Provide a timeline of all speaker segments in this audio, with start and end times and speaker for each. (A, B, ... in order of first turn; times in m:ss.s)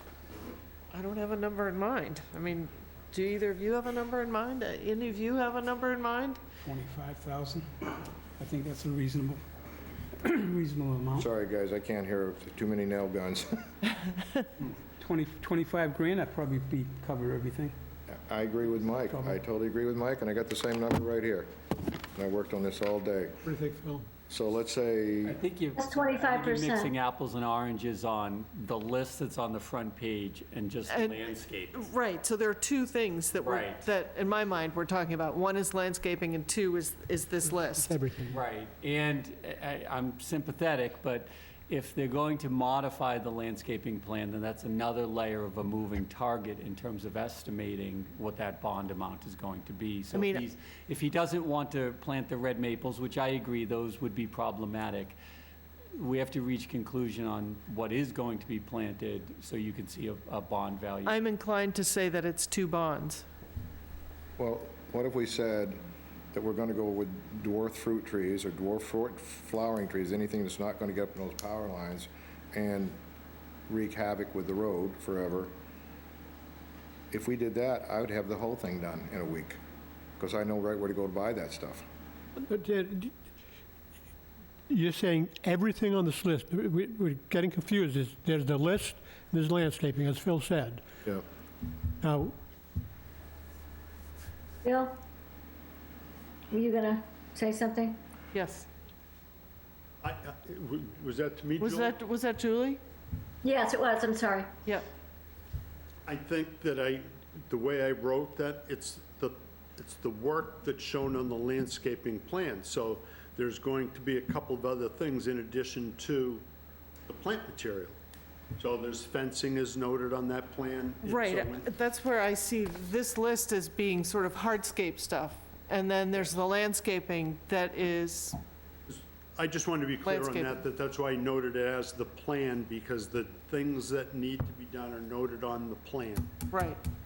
0:00.9-0:06.4 A
0:06.6-0:09.5 B
0:10.1-0:11.3 B
0:11.2-0:13.7 C
0:15.0-0:17.8 B
0:18.1-0:21.5 C
0:22.1-0:23.4 C
0:23.4-0:24.1 D
0:24.3-0:25.4 C
0:25.2-0:31.8 E
0:25.8-0:26.9 F
0:30.9-0:38.0 A
0:33.4-0:33.8 E
0:37.8-0:38.4 D
0:38.3-0:55.2 E
0:50.1-0:50.4 A
0:56.0-1:01.2 E
1:01.0-1:03.2 A
1:04.4-1:05.8 C
1:06.3-1:13.0 C
1:13.7-1:15.5 C
1:17.1-1:19.6 C
1:20.2-1:21.8 C
1:22.4-1:23.1 D
1:24.7-1:30.8 D
1:32.0-1:32.4 D
1:34.6-1:35.0 F
1:36.5-1:38.0 F
1:38.3-1:38.7 A
1:40.0-1:42.0 G
1:41.6-1:42.8 A
1:43.4-1:44.5 F
1:46.1-1:56.4 G
1:57.1-1:58.0 G
1:58.6-2:01.7 G
2:01.0-2:08.4 A
2:08.9-2:16.3 G
2:10.0-2:10.6 A
2:16.5-2:16.8 A